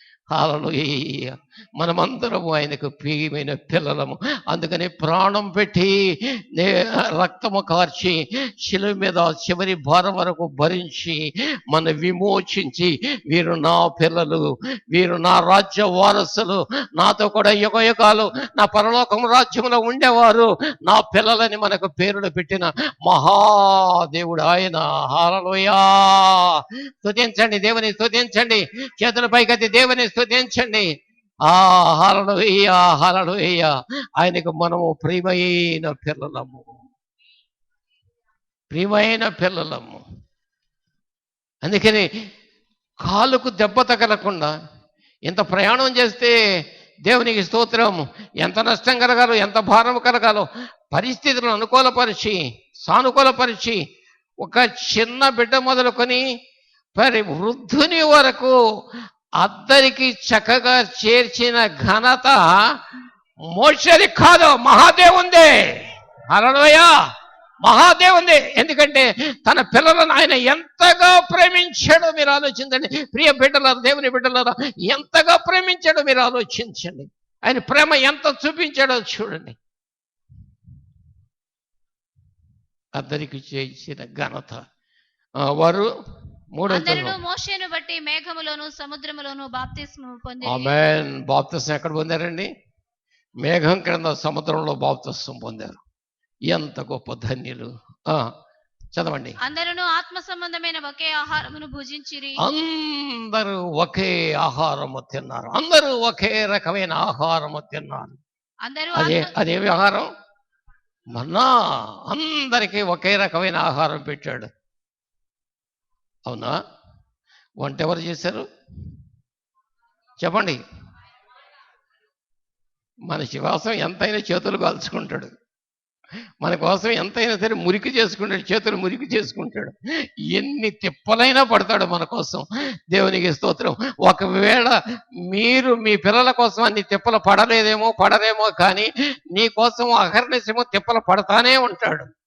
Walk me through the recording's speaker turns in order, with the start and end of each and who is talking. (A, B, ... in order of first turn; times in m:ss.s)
0:00.3-0:30.9 A
0:31.4-0:36.7 A
0:38.7-0:40.0 A
0:41.6-0:42.1 A
0:43.0-0:44.5 A
0:45.3-0:46.3 A
0:47.1-0:53.8 A
0:54.4-0:56.2 A
0:57.0-0:58.5 A
0:59.4-1:02.6 A
1:03.5-1:06.9 A
1:07.6-1:19.6 A
1:23.0-1:24.6 A
1:25.4-1:25.9 A
1:26.5-1:27.2 A
1:26.7-1:30.7 B
1:30.4-1:32.5 A
1:33.4-1:35.8 A
1:36.5-1:38.3 A
1:38.9-1:39.4 A
1:39.4-1:42.4 B
1:42.4-1:48.2 A
1:48.6-1:49.3 B
1:49.0-1:50.1 A
1:51.1-1:54.5 A
1:56.3-1:56.6 A
1:57.6-1:58.4 A
2:00.2-2:00.6 A
2:03.1-2:05.3 A
2:06.4-2:09.7 A
2:10.3-2:14.8 A
2:15.3-2:22.1 A